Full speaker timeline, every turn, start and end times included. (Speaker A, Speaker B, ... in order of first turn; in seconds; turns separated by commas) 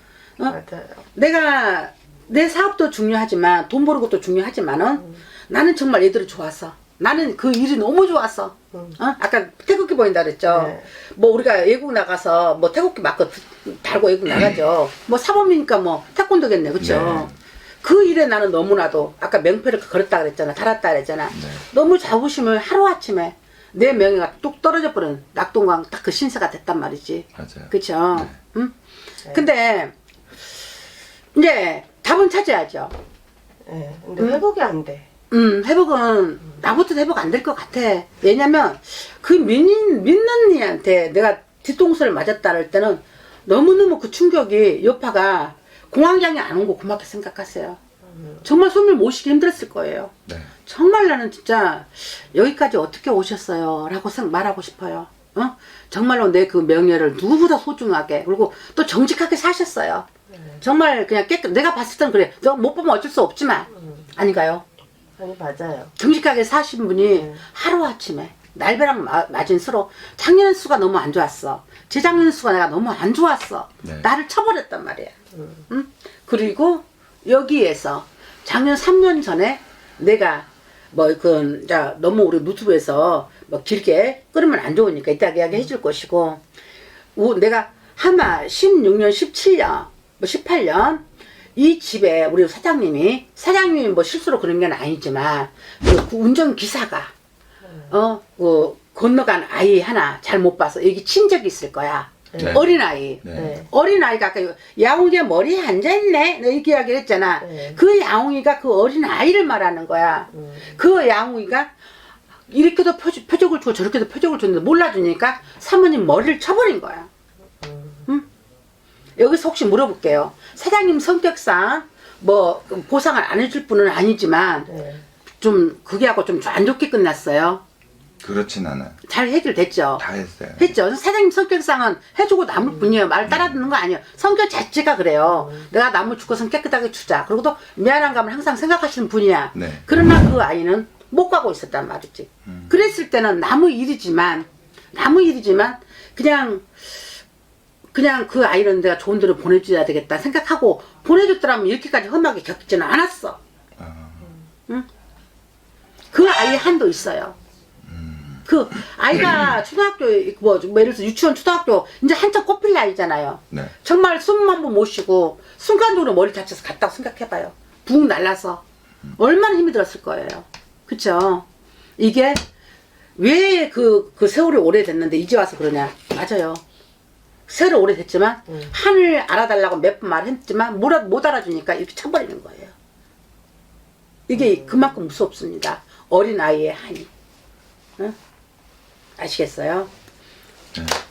Speaker A: 0.5-1.0, Speaker B: 1.1-17.3, Speaker A: 10.5-10.9, Speaker C: 16.8-17.3, Speaker B: 17.8-28.7, Speaker C: 21.3-21.6, Speaker C: 27.3-28.3, Speaker B: 29.3-29.9, Speaker B: 31.3-32.9, Speaker A: 33.6-35.0, Speaker B: 35.3-47.8, Speaker B: 48.4-60.0, Speaker B: 60.6-64.6, Speaker A: 65.2-65.9, Speaker B: 66.0-75.1, Speaker C: 73.8-74.1, Speaker B: 75.7-86.4, Speaker B: 87.2-91.0, Speaker B: 91.5-97.1, Speaker B: 97.9-111.7, Speaker A: 102.3-102.6, Speaker C: 102.4-102.6, Speaker C: 103.2-103.6, Speaker A: 103.3-103.7, Speaker A: 107.4-107.8, Speaker B: 112.5-117.1, Speaker A: 117.6-118.0, Speaker B: 119.2-124.7, Speaker A: 124.7-125.0, Speaker B: 125.4-127.6, Speaker C: 128.2-129.0, Speaker B: 129.0-130.0, Speaker C: 130.0-130.7, Speaker B: 130.6-146.7, Speaker A: 132.6-132.9, Speaker C: 133.2-133.6, Speaker C: 139.5-139.8, Speaker C: 142.4-142.7, Speaker B: 147.9-153.4, Speaker C: 153.8-154.3, Speaker B: 156.1-157.3, Speaker C: 157.9-158.4, Speaker B: 158.4-168.6, Speaker B: 169.1-171.4, Speaker B: 172.0-172.4, Speaker B: 173.2-176.6, Speaker B: 177.5-182.7, Speaker B: 184.3-187.1, Speaker A: 184.4-184.9, Speaker B: 189.2-189.9, Speaker C: 190.7-191.0